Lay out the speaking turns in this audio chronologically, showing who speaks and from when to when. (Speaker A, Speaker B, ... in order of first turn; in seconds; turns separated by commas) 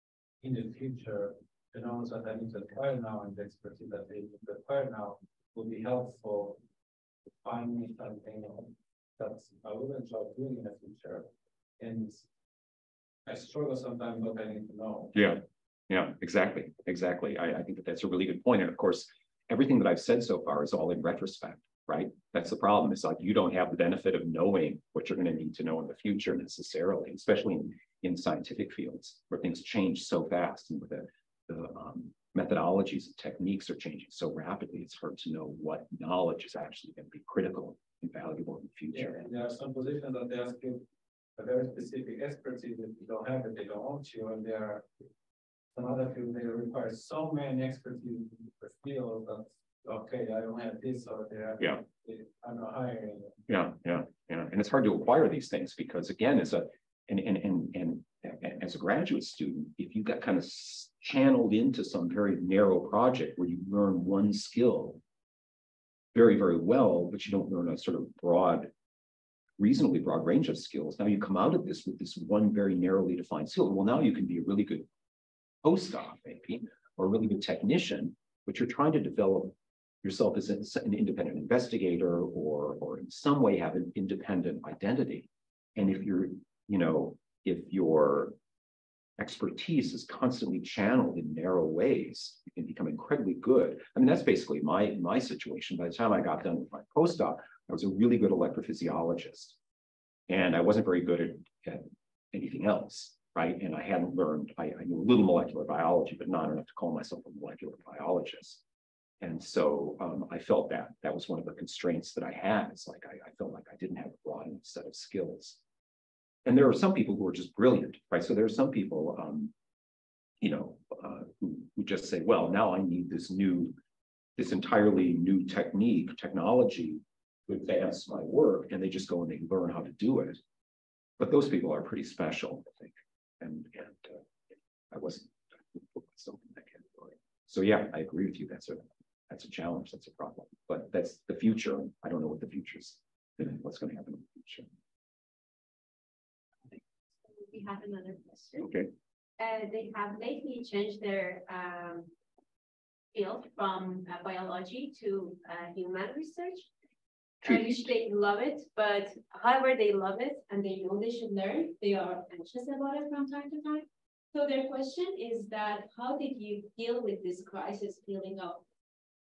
Speaker A: 0.4-6.6, Speaker A: 7.3-12.3, Speaker A: 13.3-15.1, Speaker B: 15.1-39.2, Speaker A: 38.9-40.9, Speaker A: 41.4-44.9, Speaker A: 45.8-53.4, Speaker B: 53.5-65.0, Speaker B: 66.1-68.7, Speaker B: 69.6-74.9, Speaker B: 75.6-88.4, Speaker B: 89.2-99.6, Speaker B: 100.3-108.6, Speaker B: 109.2-115.6, Speaker B: 116.5-119.5, Speaker B: 120.4-123.8, Speaker B: 124.4-130.4, Speaker B: 131.2-134.2, Speaker B: 134.9-144.7, Speaker C: 147.2-148.7, Speaker B: 148.6-148.9, Speaker C: 149.4-152.1, Speaker C: 153.1-156.7, Speaker C: 157.4-168.7, Speaker B: 157.4-157.8